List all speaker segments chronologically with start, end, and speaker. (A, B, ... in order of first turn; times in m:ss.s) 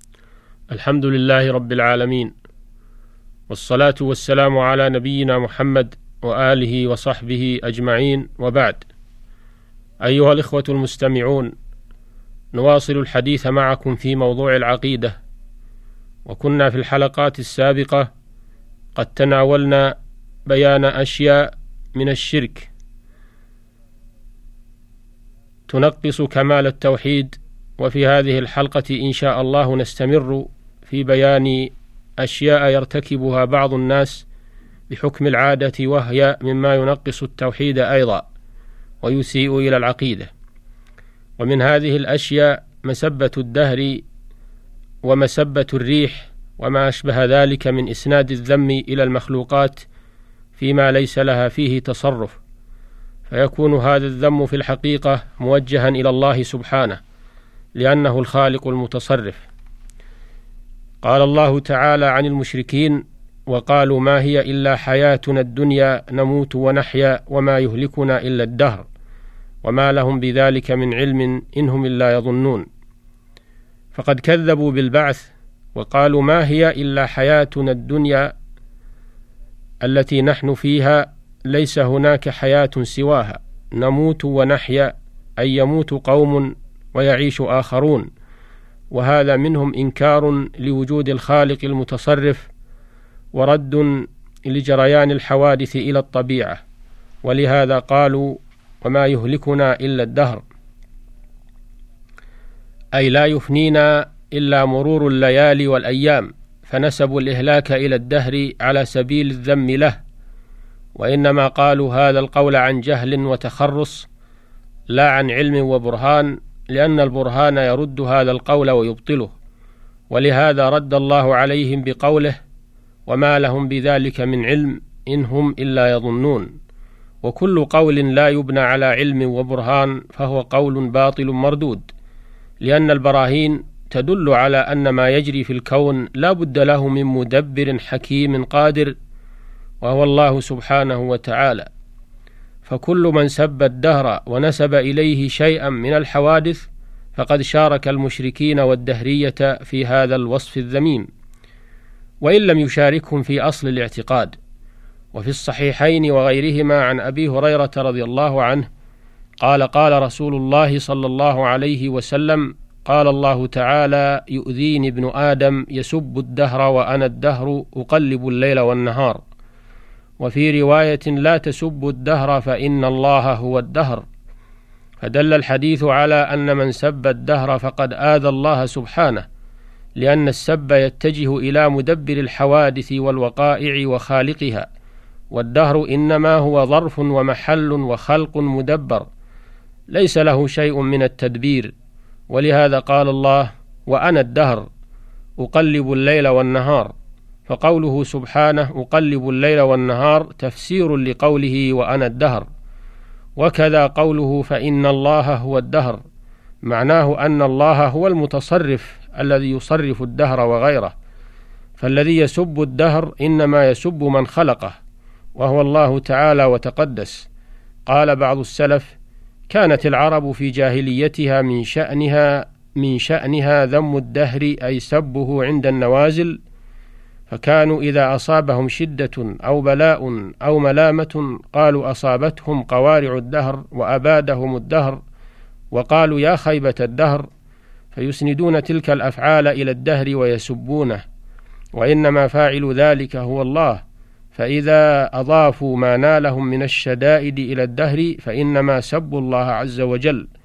0:00.7-0:02.3 A
0:03.5-0:08.8 A
0:10.0-0:11.5 A
0:12.5-0:15.2 A
0:16.2-0:18.1 A
0:18.9-0:19.9 A
0:20.5-0:22.7 A
0:25.7-0:34.2 A
0:34.9-0:38.2 A
0:39.0-0:40.3 A
0:41.4-0:44.0 A
0:45.0-0:49.9 A
0:50.5-0:52.4 A
0:53.3-0:57.0 A
0:57.8-0:59.4 A
1:01.0-1:08.9 A
1:09.6-1:12.6 A
1:13.9-1:18.3 A
1:19.8-1:28.1 A
1:28.9-1:32.5 A
1:33.3-1:36.6 A
1:37.2-1:40.4 A
1:42.9-1:50.0 A
1:51.0-1:54.1 A
1:54.9-1:59.3 A
2:00.1-2:02.4 A
2:03.1-2:06.5 A
2:07.2-2:11.9 A
2:12.6-2:18.9 A
2:19.8-2:21.7 A
2:22.6-2:31.1 A
2:32.2-2:34.3 A
2:35.1-2:38.7 A
2:39.4-2:49.2 A
2:50.2-2:54.0 A
2:55.0-2:59.2 A
3:00.0-3:04.7 A
3:05.3-3:09.1 A
3:09.9-3:11.7 A
3:12.3-3:14.7 A
3:15.4-3:16.9 A
3:17.5-3:22.5 A
3:23.4-3:26.0 A
3:26.6-3:30.9 A
3:31.8-3:34.8 A
3:35.4-3:37.3 A
3:37.8-3:38.9 A
3:39.5-3:46.4 A
3:47.3-3:55.0 A
3:55.7-3:57.3 A
3:57.9-4:01.0 A
4:01.7-4:03.8 A
4:04.3-4:10.3 A